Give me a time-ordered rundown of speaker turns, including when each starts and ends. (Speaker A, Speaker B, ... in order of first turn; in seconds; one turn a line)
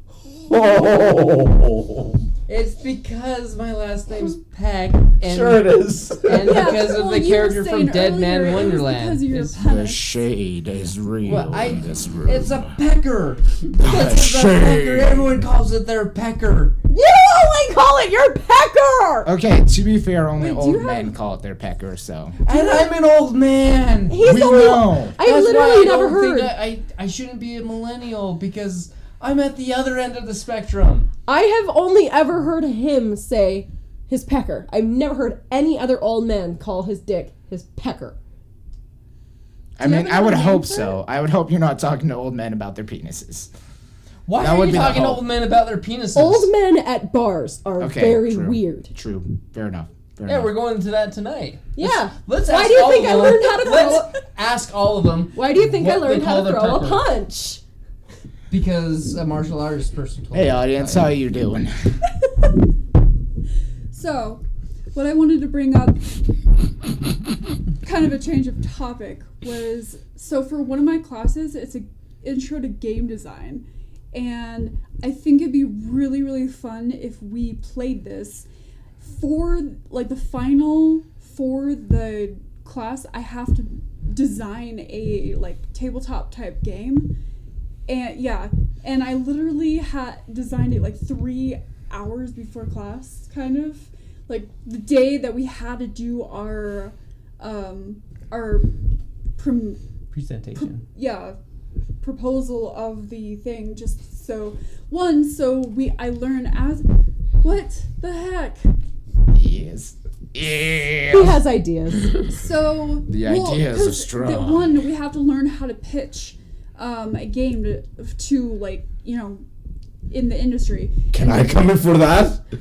Speaker A: 0.5-2.3
Speaker B: 2.5-9.6
Speaker A: 5.2-6.8
Speaker C: 6.3-10.2
Speaker D: 9.6-12.7
Speaker B: 11.2-16.8
Speaker D: 13.8-15.3
Speaker E: 16.9-19.3
Speaker D: 19.2-22.4
Speaker C: 20.4-21.2
Speaker B: 22.4-24.4
Speaker C: 22.5-22.9
Speaker E: 24.1-26.5
Speaker D: 24.2-25.2
Speaker B: 25.2-31.1
Speaker E: 31.3-38.2
Speaker D: 39.8-43.5
Speaker C: 39.8-41.0
Speaker B: 44.3-46.5
Speaker D: 44.4-45.2
Speaker E: 46.1-48.9
Speaker D: 47.8-50.5
Speaker B: 50.3-57.0
Speaker E: 51.8-54.1
Speaker C: 53.6-54.0
Speaker E: 55.4-57.6
Speaker B: 58.5-61.1
Speaker D: 60.3-61.7
Speaker C: 63.9-64.4
Speaker C: 64.9-66.1
Speaker C: 67.8-78.5
Speaker C: 79.0-87.1
Speaker C: 87.9-98.7
Speaker C: 99.4-99.8
Speaker B: 100.1-100.8
Speaker C: 100.5-101.4
Speaker C: 102.0-106.8
Speaker C: 107.4-108.7
Speaker D: 109.3-111.4
Speaker E: 111.1-112.1
Speaker C: 112.2-119.4
Speaker D: 113.1-114.7
Speaker C: 120.1-121.6
Speaker A: 121.1-122.4